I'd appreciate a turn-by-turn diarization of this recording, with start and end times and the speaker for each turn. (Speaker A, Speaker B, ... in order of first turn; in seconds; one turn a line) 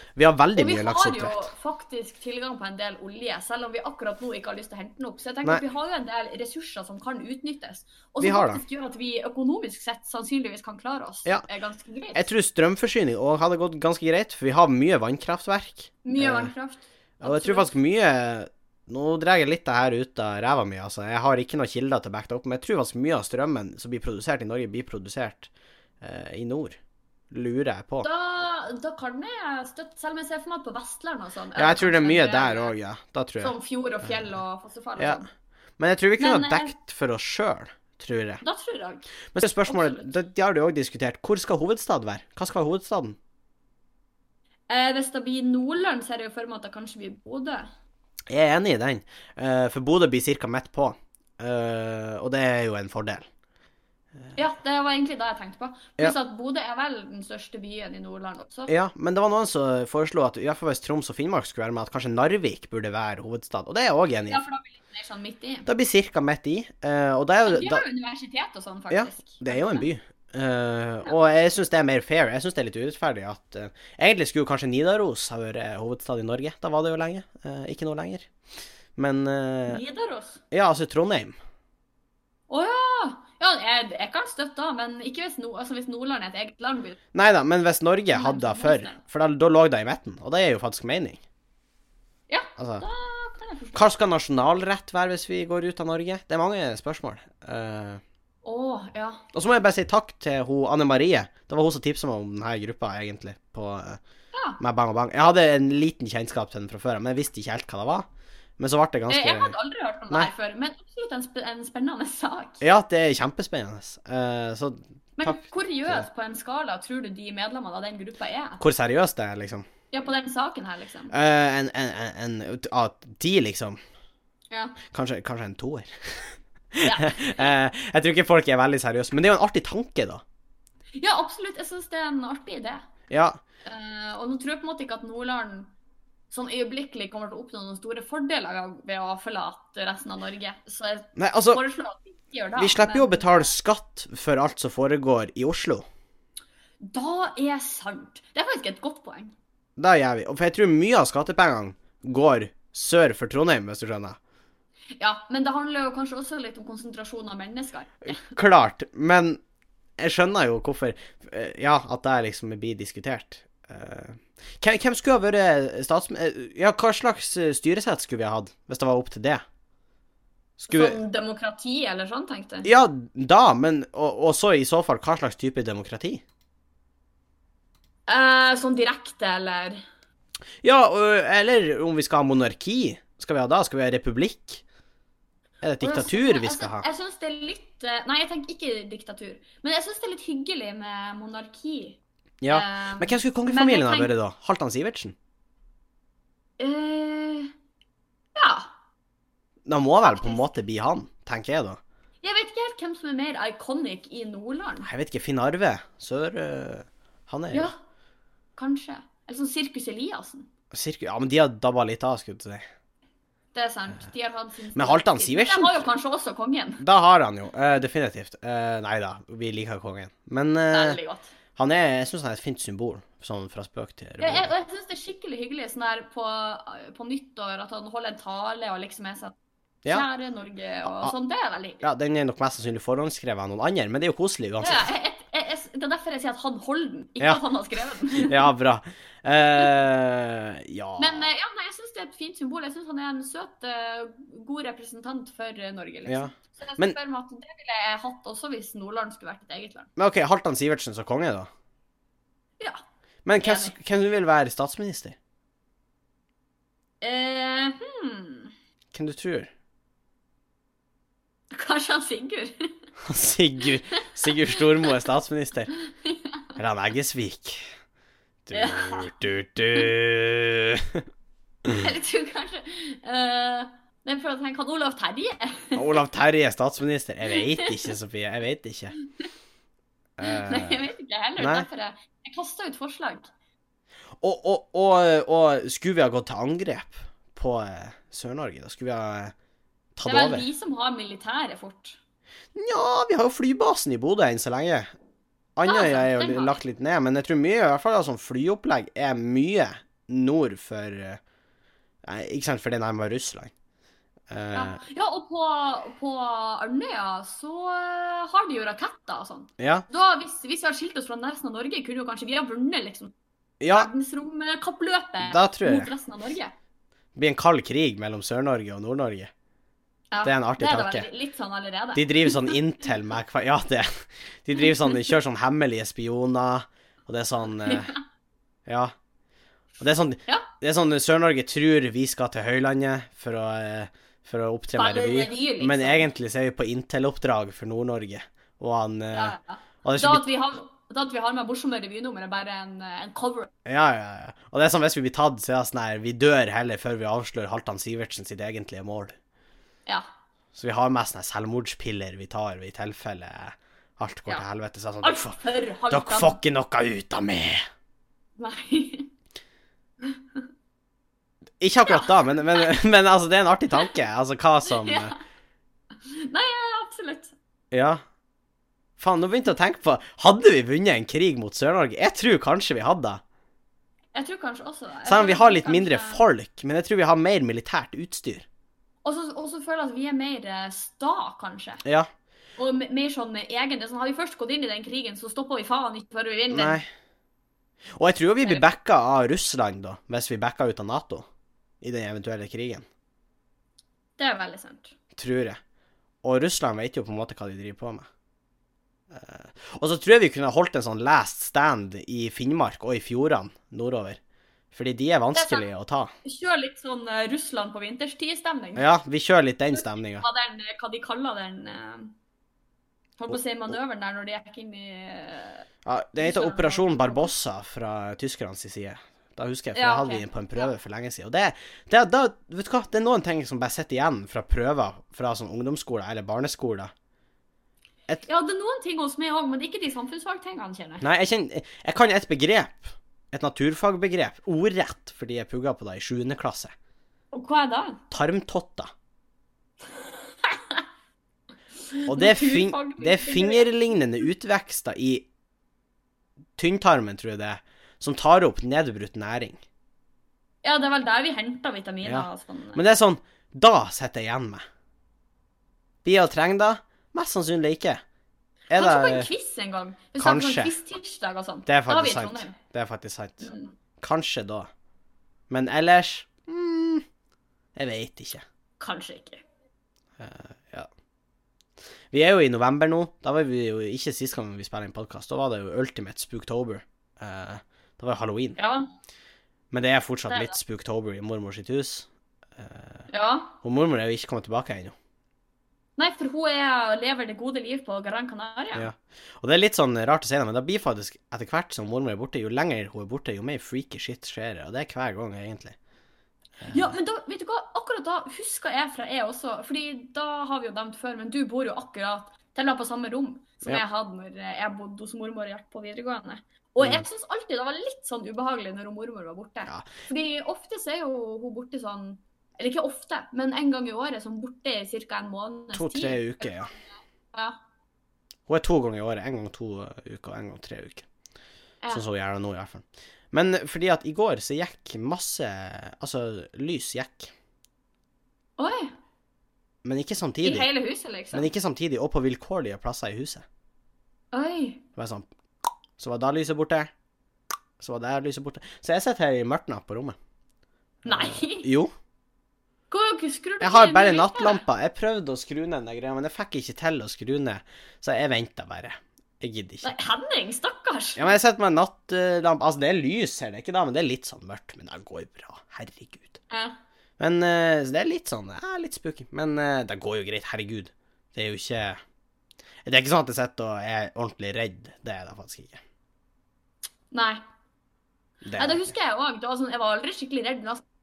Speaker A: 0.2-1.5
Speaker B: 0.6-12.3
Speaker A: 8.2-8.6
Speaker A: 12.2-16.5
Speaker B: 16.0-17.7
Speaker A: 17.2-25.5
Speaker A: 26.0-26.8
Speaker A: 27.3-28.1
Speaker B: 28.0-32.8
Speaker A: 31.6-33.5
Speaker B: 33.4-35.3
Speaker A: 35.0-35.2
Speaker A: 35.8-38.4
Speaker B: 36.2-36.7
Speaker B: 38.4-39.1
Speaker A: 39.3-43.2
Speaker B: 39.7-40.1
Speaker B: 44.7-47.7
Speaker A: 48.3-53.3
Speaker B: 54.4-58.7
Speaker A: 58.7-64.4
Speaker B: 64.3-65.7
Speaker A: 65.7-67.8
Speaker B: 67.4-69.9
Speaker A: 68.9-78.3
Speaker A: 79.0-79.8
Speaker B: 79.7-80.4
Speaker A: 80.5-81.3
Speaker B: 82.5-87.0
Speaker A: 87.1-91.2
Speaker B: 88.1-89.0
Speaker B: 92.3-93.9
Speaker A: 92.6-92.8
Speaker A: 93.8-98.0
Speaker B: 98.5-99.2
Speaker A: 99.3-104.0
Speaker B: 104.3-104.6
Speaker A: 104.6-108.1
Speaker A: 108.6-109.5
Speaker B: 109.1-112.6
Speaker A: 112.6-116.0
Speaker B: 115.2-118.6
Speaker A: 118.6-119.7
Speaker B: 119.9-121.2
Speaker A: 121.1-123.8
Speaker B: 124.5-124.8
Speaker A: 124.9-130.2
Speaker B: 126.8-127.5
Speaker B: 131.0-132.8
Speaker A: 133.1-133.4
Speaker B: 133.7-135.7
Speaker B: 136.3-143.5
Speaker A: 141.2-141.6
Speaker A: 142.6-145.8
Speaker B: 146.9-149.3
Speaker A: 149.8-154.2
Speaker B: 155.0-158.3
Speaker A: 158.1-159.4
Speaker A: 160.0-169.4
Speaker A: 170.6-171.0
Speaker B: 170.7-172.7
Speaker A: 172.6-176.2
Speaker B: 178.1-179.8
Speaker A: 180.6-184.6
Speaker A: 185.6-186.8
Speaker B: 185.8-192.0
Speaker A: 192.4-195.2
Speaker B: 192.5-194.1
Speaker B: 196.6-197.5
Speaker B: 198.3-198.7
Speaker A: 199.7-201.8
Speaker B: 200.0-200.6
Speaker B: 202.2-204.9
Speaker A: 204.8-207.7
Speaker B: 207.5-207.8
Speaker B: 208.6-210.5
Speaker A: 210.7-212.7
Speaker B: 213.5-216.8
Speaker A: 214.8-215.9
Speaker A: 216.8-221.0
Speaker B: 220.7-221.3
Speaker A: 221.6-224.5
Speaker B: 224.2-229.3
Speaker B: 229.9-231.9
Speaker A: 230.8-231.1
Speaker A: 231.8-234.9
Speaker B: 234.6-238.5
Speaker A: 238.2-241.3
Speaker B: 241.0-249.9
Speaker A: 246.1-247.0
Speaker A: 250.0-251.5
Speaker A: 253.2-255.2
Speaker B: 253.4-253.8
Speaker B: 257.0-258.5
Speaker A: 258.9-259.5
Speaker B: 261.5-262.8
Speaker A: 263.1-265.7
Speaker B: 266.0-266.3
Speaker A: 266.6-267.7
Speaker A: 268.5-271.0
Speaker B: 268.5-269.1
Speaker B: 271.7-276.0
Speaker A: 275.8-278.9
Speaker B: 277.4-277.9
Speaker A: 280.2-280.9
Speaker B: 280.2-283.3
Speaker A: 281.4-281.7
Speaker A: 284.2-289.3
Speaker A: 290.0-290.5
Speaker B: 290.1-292.0
Speaker A: 292.6-294.9
Speaker A: 295.6-301.2
Speaker B: 295.6-296.6
Speaker A: 302.0-303.5
Speaker A: 304.3-304.8
Speaker B: 304.5-313.1
Speaker A: 309.6-309.9
Speaker A: 313.6-313.9
Speaker B: 313.7-316.5
Speaker A: 315.2-315.9
Speaker A: 317.1-319.3
Speaker B: 320.1-322.6
Speaker A: 320.2-321.1
Speaker A: 321.9-327.9
Speaker B: 327.6-328.0
Speaker A: 328.7-328.9
Speaker A: 329.8-340.2
Speaker B: 334.8-336.1
Speaker B: 339.1-343.5
Speaker A: 343.6-349.2
Speaker A: 350.5-355.4
Speaker B: 355.0-356.4
Speaker A: 355.9-357.6
Speaker B: 358.4-359.1
Speaker B: 360.0-360.4
Speaker A: 361.6-365.1
Speaker B: 361.9-362.7
Speaker B: 364.7-365.2
Speaker B: 366.1-367.3
Speaker A: 367.7-368.0
Speaker A: 369.0-373.2
Speaker B: 374.1-376.2
Speaker A: 375.1-378.5
Speaker B: 379.0-381.8
Speaker B: 382.6-386.8
Speaker A: 386.5-386.9
Speaker A: 387.9-391.3
Speaker A: 391.8-392.9
Speaker B: 394.2-394.9
Speaker A: 395.1-395.6
Speaker A: 396.2-398.1
Speaker A: 399.1-404.2
Speaker A: 404.7-406.1
Speaker B: 405.4-405.6
Speaker B: 406.2-408.9
Speaker A: 408.8-410.2
Speaker B: 409.7-412.1
Speaker B: 413.2-415.7
Speaker A: 415.9-426.9
Speaker B: 416.2-417.3
Speaker B: 419.8-420.7
Speaker B: 428.2-431.1
Speaker A: 431.0-436.7
Speaker B: 437.3-438.0
Speaker A: 438.1-438.9
Speaker B: 439.9-440.8
Speaker B: 441.9-443.7
Speaker A: 442.1-445.3
Speaker A: 446.6-449.6
Speaker B: 450.6-452.8
Speaker A: 452.0-454.6
Speaker A: 456.0-458.0
Speaker A: 458.7-459.3
Speaker B: 458.7-462.6
Speaker A: 460.2-460.8
Speaker A: 461.7-464.7
Speaker B: 463.4-463.7
Speaker A: 465.5-467.0
Speaker A: 467.8-468.4
Speaker B: 468.8-469.4
Speaker A: 470.2-470.9
Speaker A: 472.1-478.6
Speaker B: 478.6-478.9
Speaker A: 479.7-483.1
Speaker B: 480.3-480.6
Speaker B: 483.1-483.6
Speaker A: 483.6-484.9
Speaker B: 486.0-488.9
Speaker A: 488.8-495.8
Speaker A: 496.6-496.9
Speaker B: 496.7-517.6
Speaker A: 515.7-516.7
Speaker A: 518.5-521.0
Speaker A: 521.9-527.3
Speaker B: 528.6-528.9
Speaker A: 529.8-530.7
Speaker B: 530.4-531.5
Speaker A: 531.3-533.5
Speaker B: 534.3-534.8
Speaker A: 535.0-535.3
Speaker A: 536.0-536.9
Speaker A: 537.8-540.2
Speaker B: 541.0-541.7
Speaker A: 541.1-541.9
Speaker B: 542.9-544.6
Speaker A: 543.6-549.9
Speaker B: 549.8-551.3
Speaker A: 551.2-556.4
Speaker B: 556.5-556.8
Speaker A: 557.2-562.0
Speaker A: 562.9-565.8
Speaker B: 567.1-567.4
Speaker A: 568.4-568.9
Speaker B: 568.6-570.8